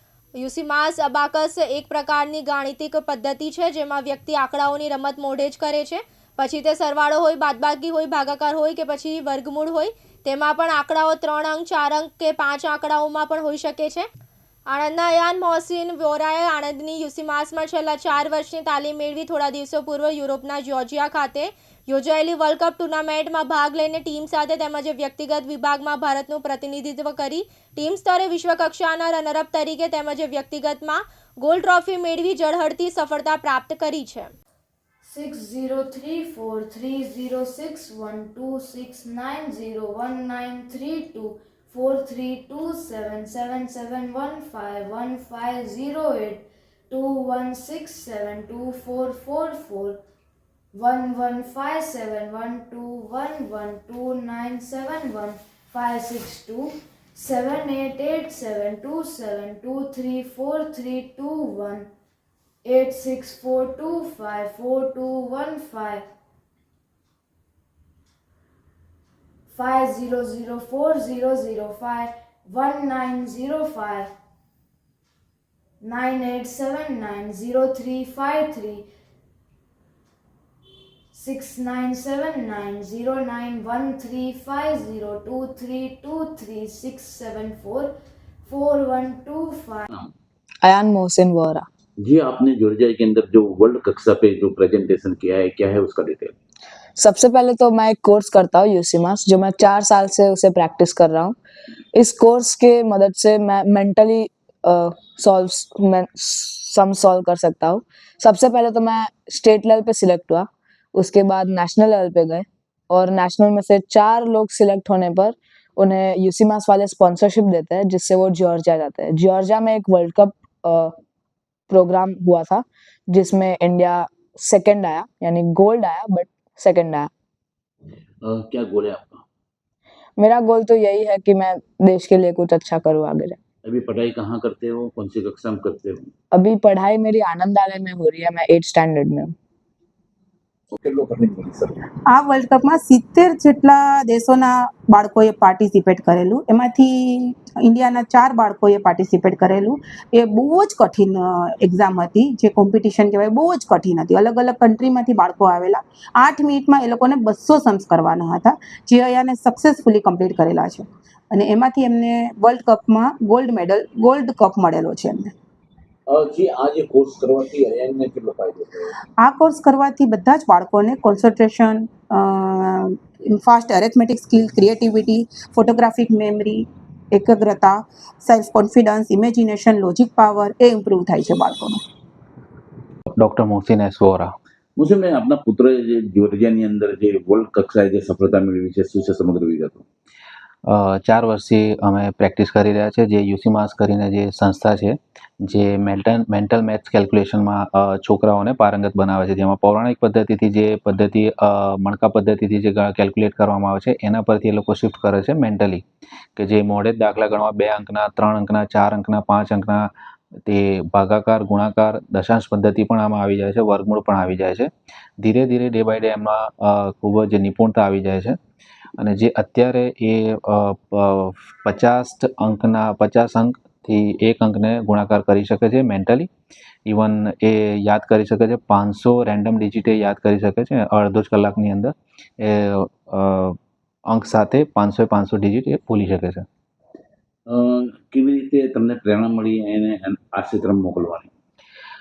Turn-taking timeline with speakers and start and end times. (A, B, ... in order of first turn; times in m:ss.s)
0:00.3-0:14.1 A
0:14.7-0:34.3 A
0:35.0-0:50.0 B
0:50.7-1:01.9 B
1:02.6-1:06.0 B
1:09.5-1:14.1 B
1:15.8-1:18.8 B
1:21.1-1:27.9 B
1:28.4-1:29.9 B
1:30.6-1:31.6 C
1:32.0-1:36.3 D
1:37.0-1:41.4 C
1:41.9-2:00.9 C
2:01.7-2:07.1 C
2:08.2-2:09.2 D
2:10.2-2:13.4 C
2:13.6-2:16.1 D
2:16.3-2:19.3 C
2:20.7-2:21.8 D
2:22.1-2:45.3 E
2:46.1-2:48.9 D
2:49.2-3:01.8 E
3:03.1-3:04.3 F
3:04.8-3:09.8 D
3:10.7-3:25.8 F
3:26.4-3:29.8 F
3:30.5-3:34.7 F
3:35.2-3:38.4 F
3:39.0-3:46.3 F
3:46.9-3:53.6 F
3:54.1-3:56.4 F
3:57.5-4:01.3 D